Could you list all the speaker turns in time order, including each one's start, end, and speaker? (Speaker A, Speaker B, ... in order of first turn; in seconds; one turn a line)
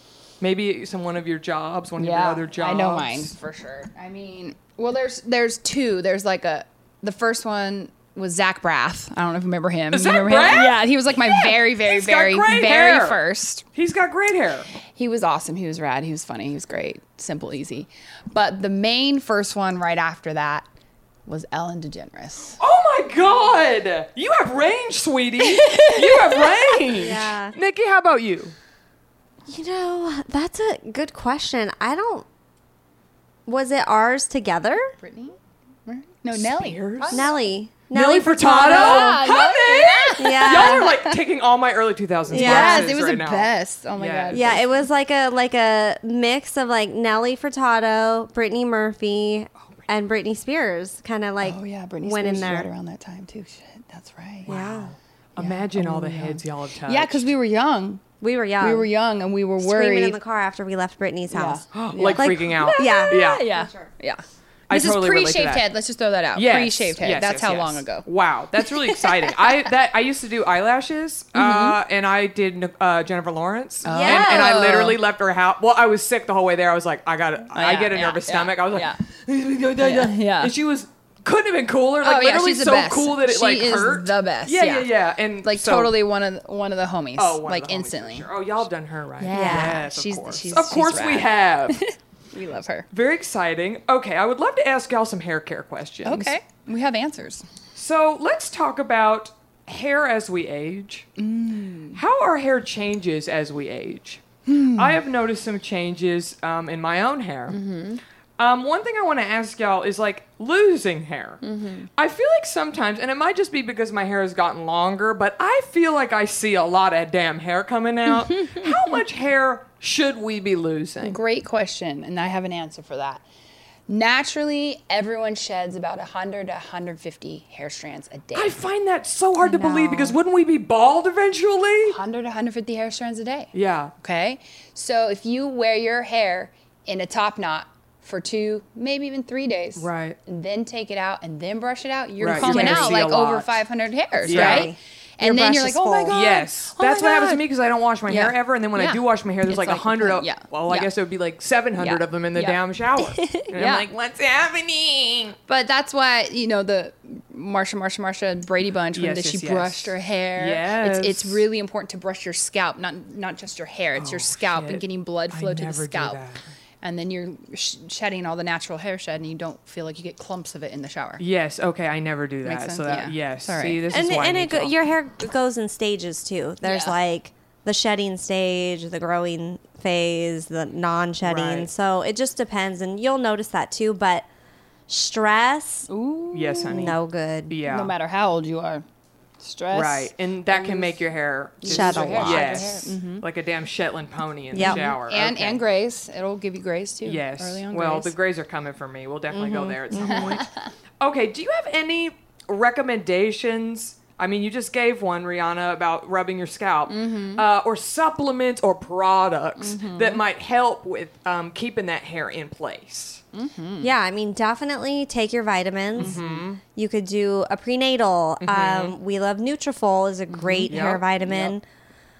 Speaker A: 0.4-3.3
Speaker B: 2.0-13.6
Speaker A: 9.9-13.2
Speaker A: 13.7-14.7
Speaker B: 14.9-20.6
Speaker B: 21.3-22.6
Speaker A: 22.6-28.5
Speaker B: 25.4-26.8
Speaker C: 26.9-27.5
Speaker C: 29.4-32.2
Speaker C: 33.5-34.9
Speaker B: 35.0-37.3
Speaker A: 36.3-37.2
Speaker C: 37.1-39.2
Speaker A: 37.9-44.5
Speaker B: 38.4-41.2
Speaker C: 40.2-40.9
Speaker B: 42.3-44.6
Speaker C: 42.3-42.9
Speaker C: 44.3-52.7
Speaker B: 51.4-54.5
Speaker C: 54.5-54.9
Speaker A: 54.5-57.3
Speaker B: 55.4-58.0
Speaker C: 58.2-58.9
Speaker B: 58.6-60.2
Speaker C: 59.6-61.6
Speaker B: 61.3-68.0
Speaker A: 61.7-63.5
Speaker C: 62.1-63.9
Speaker A: 64.7-65.7
Speaker A: 66.3-85.9
Speaker B: 68.6-69.5
Speaker B: 71.3-71.8
Speaker B: 73.8-75.0
Speaker C: 73.9-74.7
Speaker B: 77.5-79.0
Speaker B: 79.8-80.5
Speaker B: 82.0-84.9
Speaker B: 85.4-88.3
Speaker A: 87.2-91.8
Speaker B: 89.2-92.9
Speaker C: 89.3-89.8
Speaker A: 92.9-96.3
Speaker B: 96.0-97.4
Speaker A: 97.7-101.1
Speaker B: 101.2-102.0
Speaker A: 101.9-107.6
Speaker B: 104.5-105.0
Speaker B: 107.5-108.0
Speaker A: 108.4-111.4
Speaker B: 111.4-111.9
Speaker A: 112.0-121.2
Speaker B: 118.2-118.7
Speaker B: 121.0-123.2
Speaker B: 123.9-128.6
Speaker A: 128.3-132.0
Speaker B: 129.4-130.2
Speaker B: 131.8-147.4
Speaker A: 133.5-133.9
Speaker A: 139.8-140.2
Speaker A: 142.2-143.6
Speaker C: 142.3-143.0
Speaker C: 144.2-146.2
Speaker A: 144.2-144.7
Speaker A: 146.1-155.4
Speaker B: 148.1-150.9
Speaker B: 151.8-153.9
Speaker B: 155.5-166.2
Speaker A: 158.9-161.4
Speaker A: 163.9-166.4
Speaker B: 166.8-171.2
Speaker A: 171.2-174.7
Speaker B: 172.4-173.8
Speaker C: 173.9-184.2
Speaker B: 176.6-176.9
Speaker A: 181.2-181.7
Speaker C: 184.9-185.9
Speaker B: 185.9-186.9
Speaker A: 186.3-187.0
Speaker C: 186.7-187.6
Speaker A: 187.5-187.9
Speaker B: 187.7-188.8
Speaker B: 189.4-191.0
Speaker A: 189.7-195.6
Speaker B: 191.6-193.2
Speaker C: 191.6-192.8
Speaker C: 194.5-194.8
Speaker B: 194.6-198.1
Speaker A: 197.0-200.4
Speaker C: 199.3-200.4
Speaker B: 199.9-200.7
Speaker A: 201.0-213.2
Speaker B: 206.9-207.4
Speaker B: 209.6-210.2
Speaker B: 213.3-213.9
Speaker C: 213.8-216.2
Speaker A: 216.0-216.6
Speaker B: 216.0-216.4
Speaker C: 216.7-221.6
Speaker A: 218.4-218.9
Speaker B: 220.3-220.8
Speaker A: 220.7-221.5